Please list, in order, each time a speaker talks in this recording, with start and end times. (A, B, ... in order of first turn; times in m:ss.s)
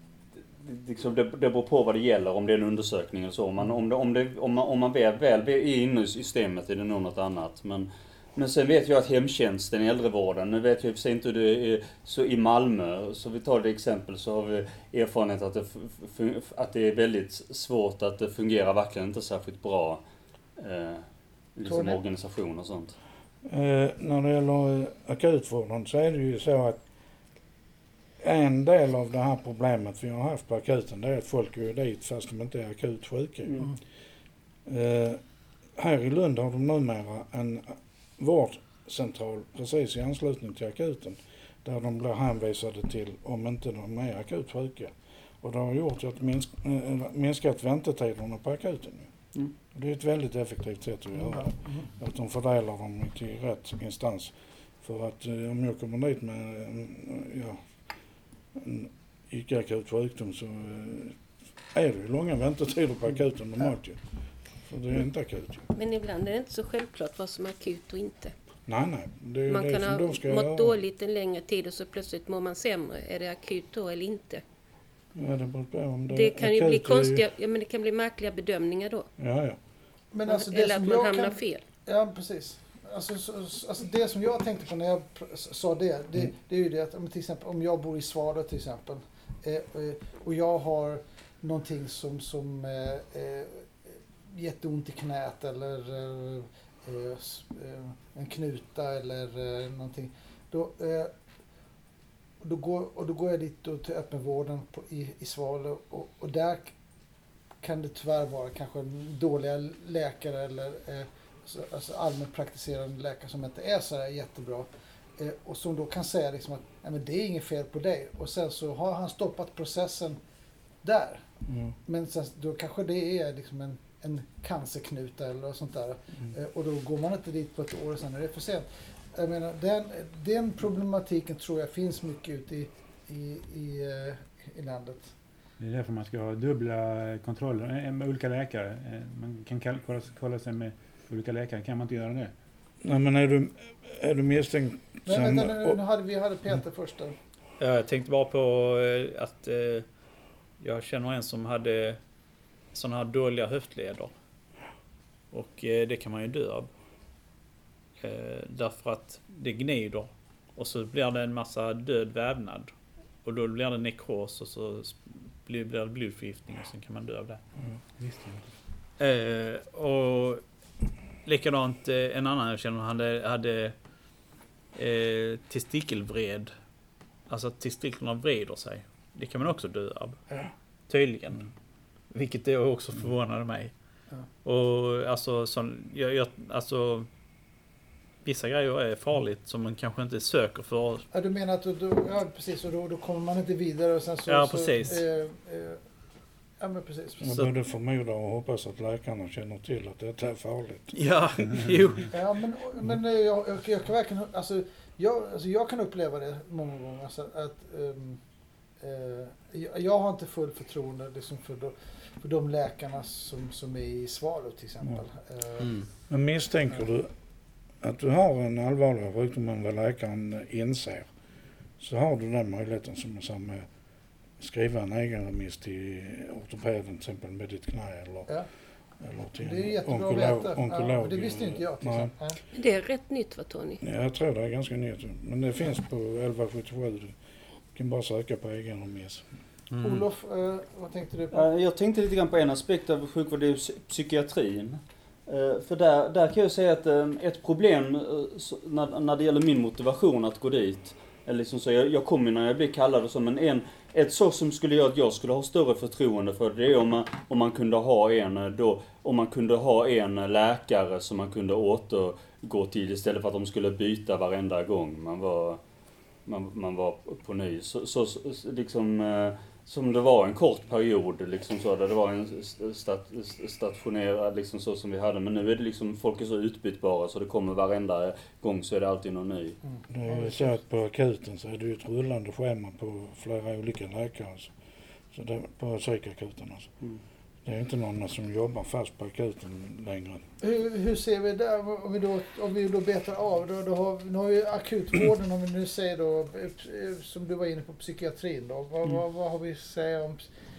0:00.6-0:20.0 A
0:20.6-0:23.0 A
0:21.6-0:22.0 B
0:23.4-0:26.8 C
0:28.2-0:33.7 C
0:34.7-0:35.2 C
0:35.8-0:49.1 C
0:49.7-0:57.6 C
0:51.2-0:51.8 B
0:58.5-1:01.2 C
1:01.7-1:04.0 C
1:04.6-1:05.7 C
1:05.7-1:08.3 D
1:08.7-1:10.8 C
1:09.5-1:14.4 D
1:15.1-1:17.3 C
1:16.1-1:19.1 D
1:19.2-1:19.6 C
1:20.1-1:33.7 B
1:20.3-1:21.6 D
1:34.3-1:41.1 B
1:42.4-1:46.7 B
1:47.6-2:00.2 B
2:00.8-2:01.2 B
2:01.5-2:01.8 C
2:01.8-2:15.1 B
2:15.6-2:22.3 E
2:22.8-2:25.8 C
2:25.1-2:27.2 B
2:27.6-2:29.9 F
2:30.6-2:32.0 F
2:32.7-2:34.1 F
2:35.3-2:36.7 F
2:38.0-2:42.7 F
2:43.2-2:47.4 F
2:48.0-2:48.5 E
2:49.0-2:50.4 F
2:51.2-2:53.8 F
2:54.8-2:56.5 F
2:57.3-3:00.2 F
3:00.9-3:01.5 F
3:02.1-3:03.8 F
3:04.4-3:07.1 F
3:08.2-3:11.0 F
3:11.1-3:15.8 B
3:14.3-3:15.0 F
3:16.6-3:17.3 B
3:17.2-3:21.7 C
3:20.9-3:22.1 F
3:22.1-3:28.2 B
3:28.8-3:35.8 B
3:36.1-3:37.1 C
3:37.8-3:41.1 C
3:41.8-3:43.7 C
3:44.4-3:48.3 C
3:49.0-3:52.1 C
3:49.4-3:52.4 B
3:52.5-3:53.8 D
3:53.8-3:57.2 C
3:57.7-3:59.2 C
3:59.8-4:00.0 F
3:59.8-4:01.5 B
4:01.3-4:25.6 A
4:26.3-4:39.6 A
4:39.7-4:40.5 B
4:39.9-4:44.5 C
4:45.1-4:46.7 C
4:47.4-4:50.2 C
4:50.4-5:00.3 B